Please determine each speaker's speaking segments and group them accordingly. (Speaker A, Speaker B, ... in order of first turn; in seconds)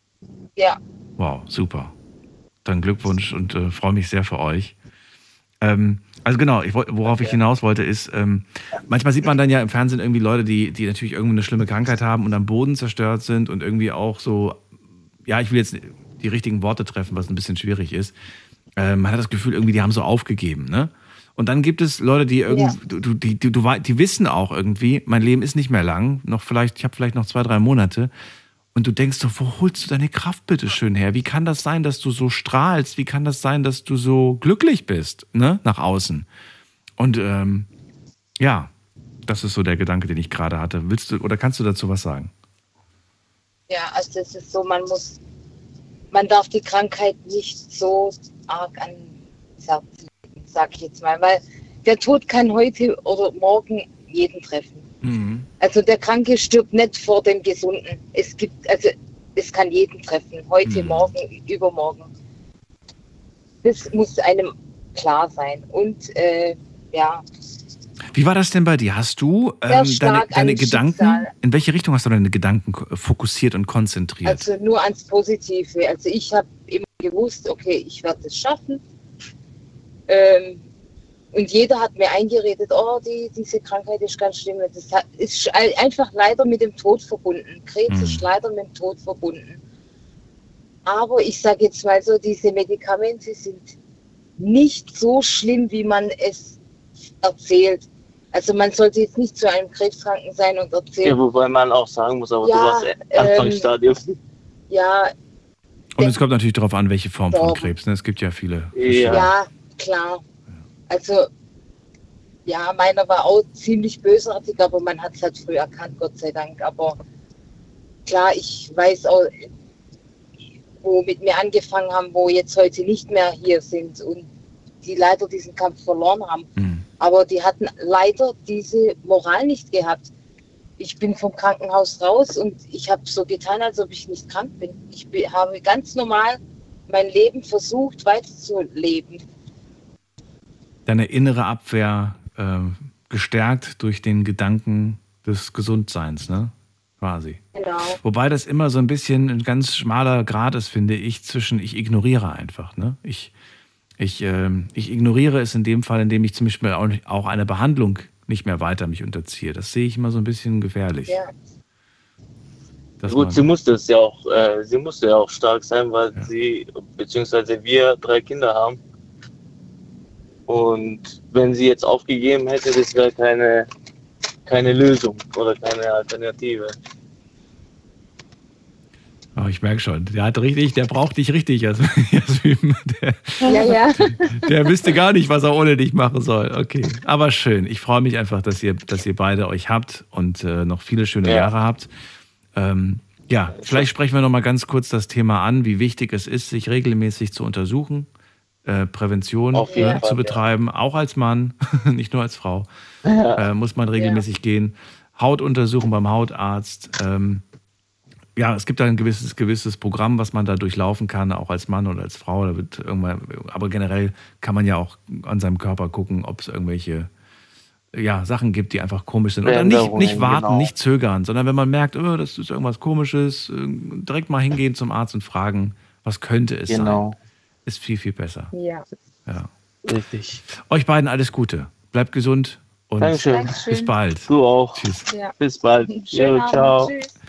Speaker A: 1.2-1.9, 2.6-4.7, 5.6-14.6, 15.3-18.1, 18.8-28.1, 28.7-36.3, 37.0-37.7, 38.4-38.7, 39.3-42.3, 55.0-55.5, 60.6-61.1, 68.1-74.5, 87.9-88.2, 106.0-109.3, 126.6-126.8, 140.9-147.4, 148.0-153.3, 154.0-161.2, 163.0-163.5, 179.4-191.9, 192.6-198.1, 198.7-202.7, 203.4-207.4, 208.4-217.1, 217.9-228.5, 230.5-235.1
Speaker B: 43.7-45.2, 46.1-54.9, 55.6-62.1, 63.6-67.2, 69.7-71.3, 74.2-78.8, 80.1-80.6, 81.3-89.6, 90.8-93.7, 94.4-96.6, 97.2-101.2, 102.4-103.7, 104.7-105.1, 107.3-107.7, 109.0-110.2, 110.9-111.3, 112.5-117.0, 118.0-119.5, 120.8-124.3, 124.8-130.1, 130.8-139.2, 147.5-148.0, 183.5-183.8, 199.7-200.0, 235.9-236.9
Speaker C: 101.0-104.1, 108.7-109.3, 163.1-168.8, 170.5-173.7, 174.5-176.7, 191.2-191.5, 193.6-193.9, 199.5-200.4, 203.1-203.4, 219.4-220.6, 226.7-227.1, 229.9-230.4, 233.0-237.0